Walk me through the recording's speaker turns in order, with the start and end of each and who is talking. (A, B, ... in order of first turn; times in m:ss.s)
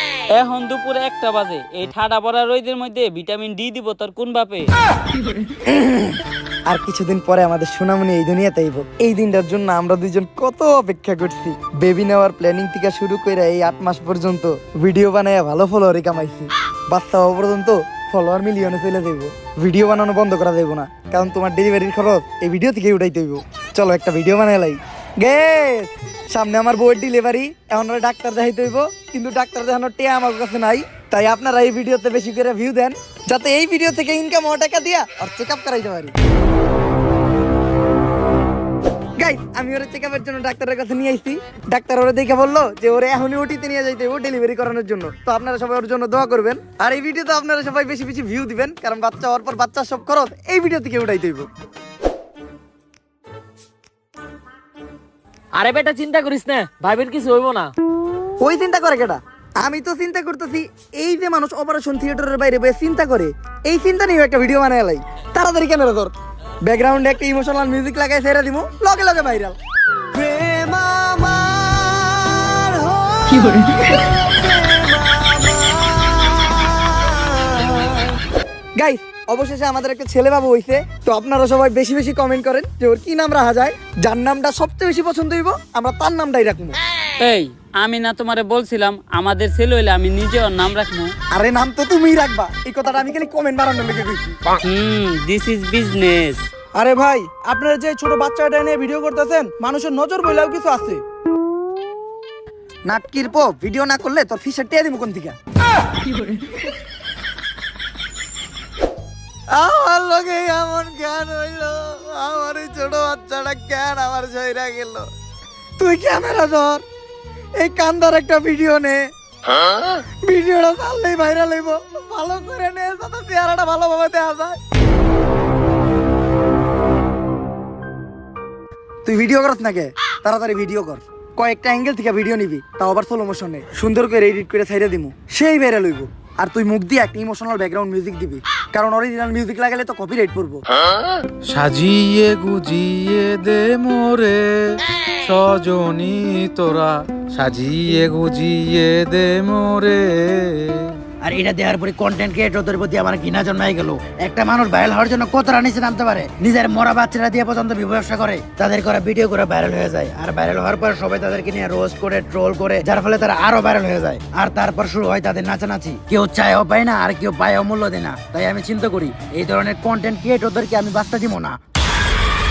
0:00.3-0:04.7 A
0:05.6-0:36.1 B
0:39.2-0:51.5 B
0:55.5-0:57.7 C
0:58.4-1:06.1 B
1:06.6-1:09.6 B
1:10.1-1:18.2 B
1:18.8-1:26.8 B
1:27.2-1:31.1 A
1:31.3-1:34.3 B
1:34.6-1:36.4 A
1:36.7-1:41.0 D
1:42.9-1:45.4 B
1:49.5-1:55.1 B
1:55.8-1:56.8 B
1:57.6-1:59.0 B
2:00.2-2:04.6 B
2:09.0-2:20.6 B
2:21.5-2:31.0 E
2:31.2-2:51.6 F